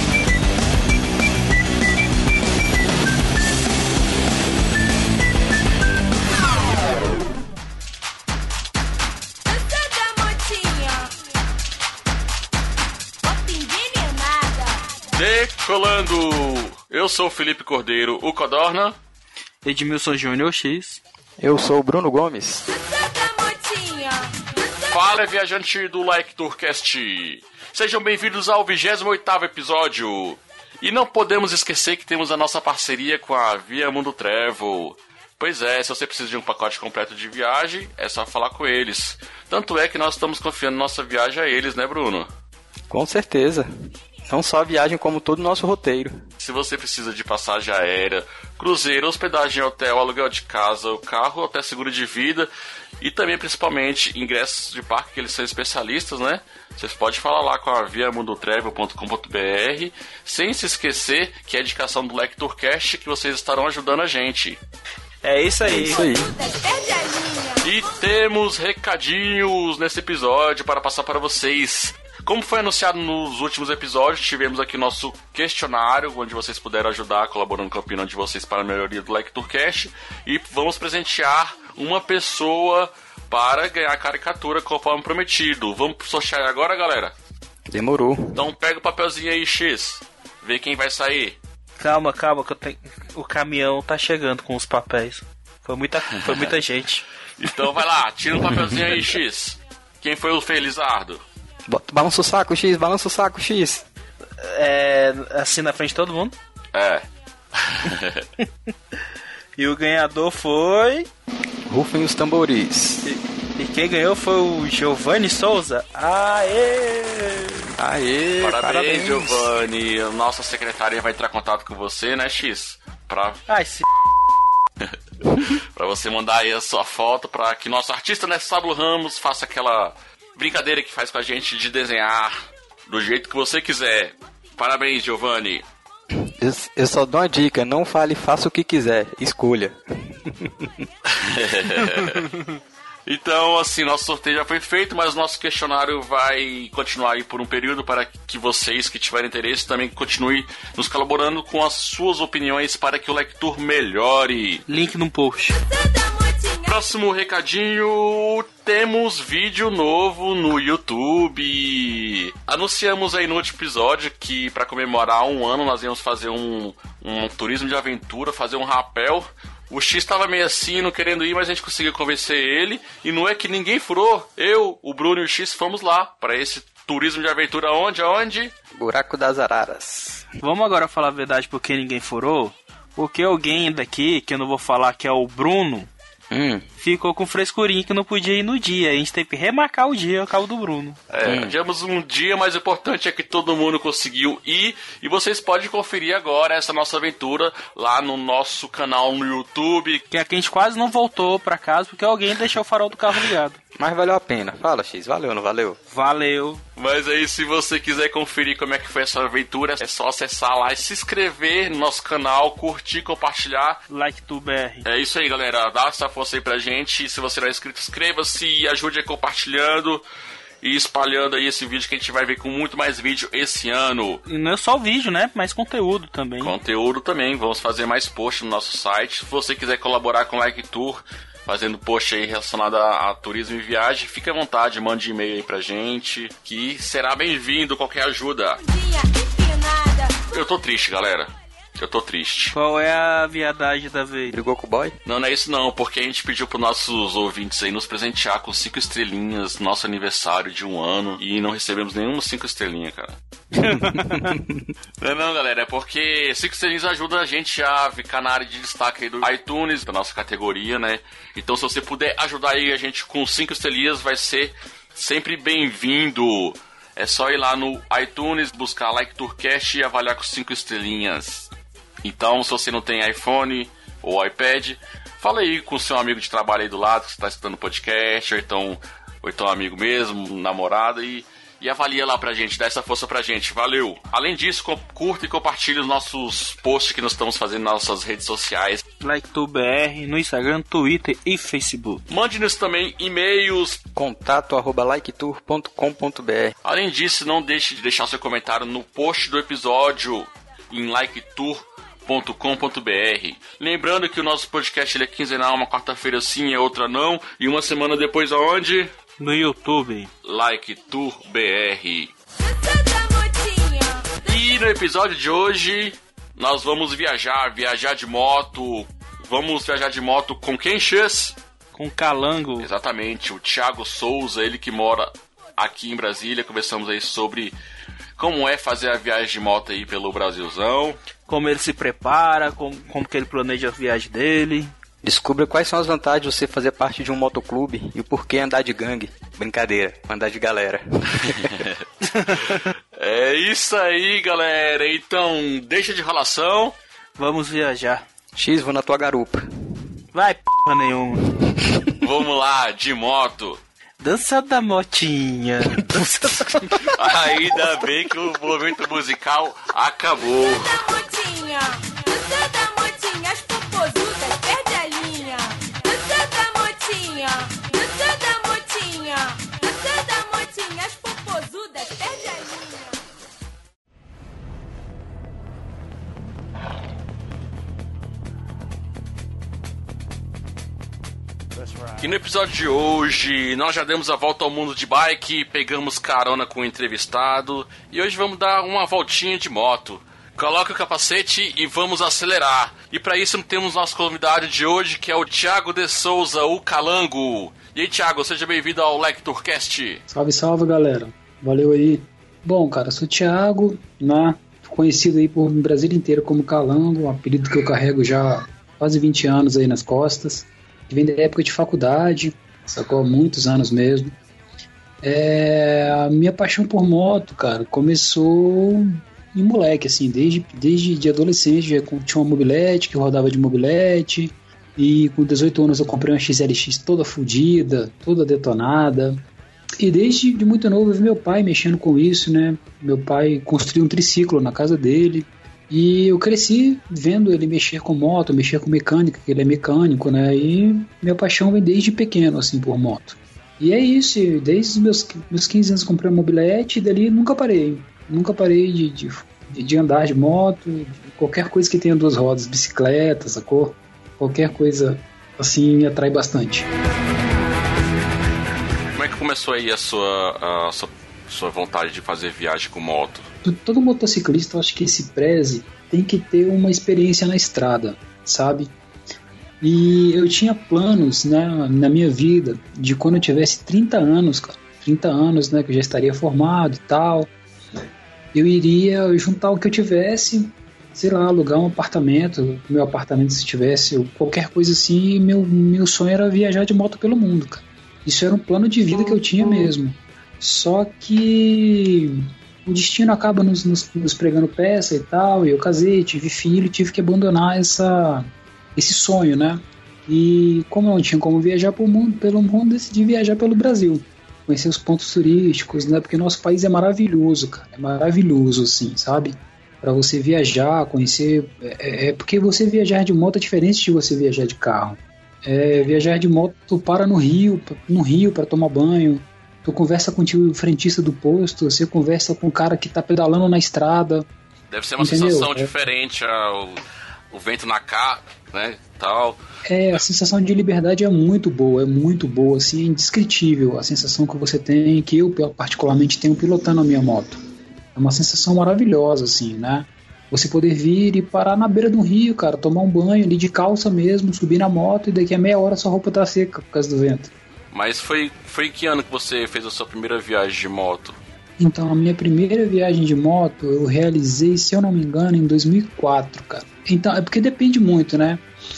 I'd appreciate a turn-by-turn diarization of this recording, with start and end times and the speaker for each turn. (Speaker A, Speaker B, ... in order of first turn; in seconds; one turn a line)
Speaker A: 9.4-11.1
Speaker A: 13.2-15.0
Speaker B: 15.1-19.0
Speaker C: 19.6-21.0
Speaker D: 21.4-22.6
Speaker A: 22.7-25.1
Speaker B: 24.9-42.3
Speaker D: 42.9-43.7
Speaker D: 44.3-46.2
Speaker B: 46.4-52.5
Speaker B: 53.0-64.6
Speaker C: 65.2-66.0
Speaker D: 65.7-66.3
Speaker A: 65.7-67.7
Speaker B: 67.6-87.1
Speaker D: 87.7-88.4
Speaker B: 88.3-91.4
Speaker C: 91.8-97.0
Speaker B: 96.2-96.5
Speaker B: 97.4-101.2
Speaker D: 98.5-99.1
Speaker D: 101.7-103.8
Speaker C: 104.4-106.3
Speaker B: 106.7-108.2
Speaker C: 109.6-111.1
Speaker D: 111.7-113.0
Speaker C: 113.0-117.7
Speaker D: 117.8-119.5
Speaker B: 118.4-123.4
Speaker C: 123.5-123.8
Speaker B: 124.8-135.6
Speaker D: 136.4-140.7
Speaker B: 141.1-142.3
Speaker B: 143.1-154.6
Speaker C: 154.7-155.6
Speaker A: 155.5-156.8
Speaker B: 156.7-178.5
Speaker D: 178.8-180.3
Speaker C: 180.4-185.9
Speaker D: 186.3-186.6
Speaker C: 186.8-191.0
Speaker B: 191.1-200.0
Speaker D: 191.2-191.6
Speaker C: 200.1-203.6
Speaker D: 203.8-205.8
Speaker C: 205.9-206.6
Speaker B: 206.8-213.8
Speaker C: 213.9-214.8
Speaker B: 214.8-220.0
Speaker B: 220.6-224.2
Speaker C: 224.2-226.5
Speaker B: 226.4-238.6
Speaker A: 238.6-240.2
Speaker B: 240.3-242.5
Speaker C: 242.5-244.4
Speaker D: 244.3-244.9
Speaker B: 245.0-253.2
Speaker C: 253.6-254.3
Speaker D: 253.8-254.7
Speaker B: 255.0-271.5
Speaker B: 272.0-288.8
Speaker C: 289.0-292.0
Speaker B: 292.1-293.8
Speaker D: 293.9-296.5
Speaker B: 296.6-308.9
Speaker C: 309.2-310.1
Speaker B: 310.2-312.1
Speaker A: 312.4-314.4
Speaker B: 314.3-321.4
Speaker C: 321.7-322.7
Speaker B: 322.6-327.6
Speaker B: 328.2-331.0
Speaker C: 331.3-334.7
Speaker D: 335.0-341.7
Speaker B: 342.9-346.8
Speaker C: 347.2-348.0
Speaker D: 348.4-349.5
Speaker C: 350.1-351.2
Speaker B: 352.0-353.6
Speaker C: 354.0-356.9
Speaker B: 356.8-360.8
Speaker A: 360.4-373.0
Speaker B: 382.0-400.0
Speaker E: 400.1-414.1
Speaker E: 415.0-429.2
Speaker E: 429.8-456.7
Speaker B: 458.9-463.3
Speaker E: 463.4-468.7
Speaker E: 469.6-477.3
Speaker E: 478.3-524.3
Speaker B: 524.7-529.4
Speaker E: 525.0-525.7
Speaker E: 529.6-537.4
Speaker E: 537.9-547.3
Speaker B: 547.7-551.2
Speaker E: 551.6-558.4